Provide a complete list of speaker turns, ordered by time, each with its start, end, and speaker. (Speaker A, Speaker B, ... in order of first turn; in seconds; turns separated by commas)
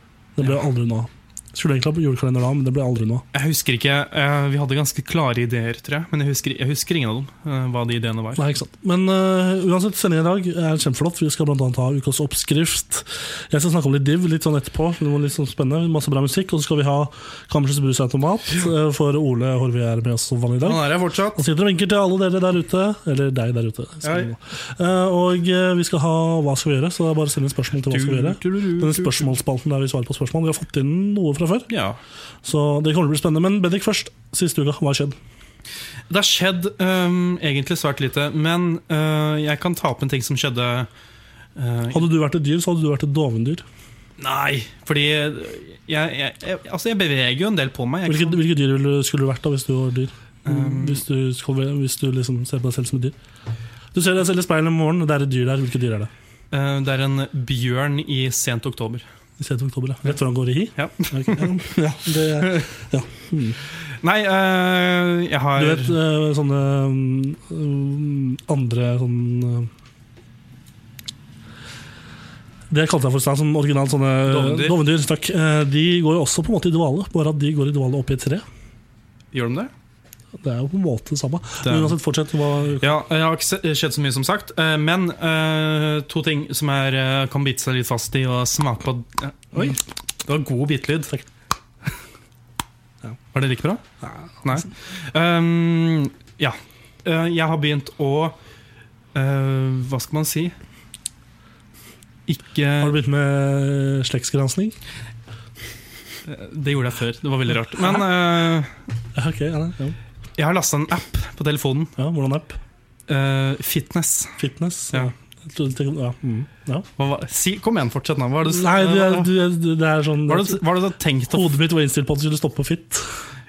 Speaker A: 0.4-3.2, Speaker B: 3.3-8.5, Speaker A: 8.4-31.7, Speaker B: 20.6-21.4, Speaker B: 24.0-24.3, Speaker B: 27.9-29.3, Speaker B: 31.7-32.0, Speaker A: 32.4-35.2, Speaker B: 36.1-40.9, Speaker B: 41.6-42.0, Speaker A: 41.9-43.6, Speaker B: 44.2-48.4, Speaker A: 48.1-53.2, Speaker B: 50.4-51.0, Speaker A: 53.9-56.1, Speaker B: 56.5-59.0, Speaker A: 59.4-63.6, Speaker B: 60.8-61.5, Speaker B: 62.4-62.7, Speaker B: 64.0-66.0, Speaker A: 65.6-69.7, Speaker A: 72.7-78.4, Speaker B: 74.2-74.8, Speaker B: 79.3-79.7, Speaker A: 80.4-82.8, Speaker B: 81.6-81.9, Speaker B: 82.8-91.2, Speaker B: 93.3-93.8, Speaker A: 94.0-94.6, Speaker B: 94.4-98.4, Speaker B: 99.1-100.5, Speaker B: 102.3-103.0, Speaker A: 102.8-104.8, Speaker B: 106.3-108.7, Speaker A: 109.1-110.0, Speaker B: 110.4-111.9, Speaker A: 112.0-112.6, Speaker B: 113.1-114.4, Speaker A: 114.4-116.9, Speaker B: 117.0-119.3, Speaker A: 118.5-120.6, Speaker B: 120.2-121.5, Speaker A: 121.3-123.2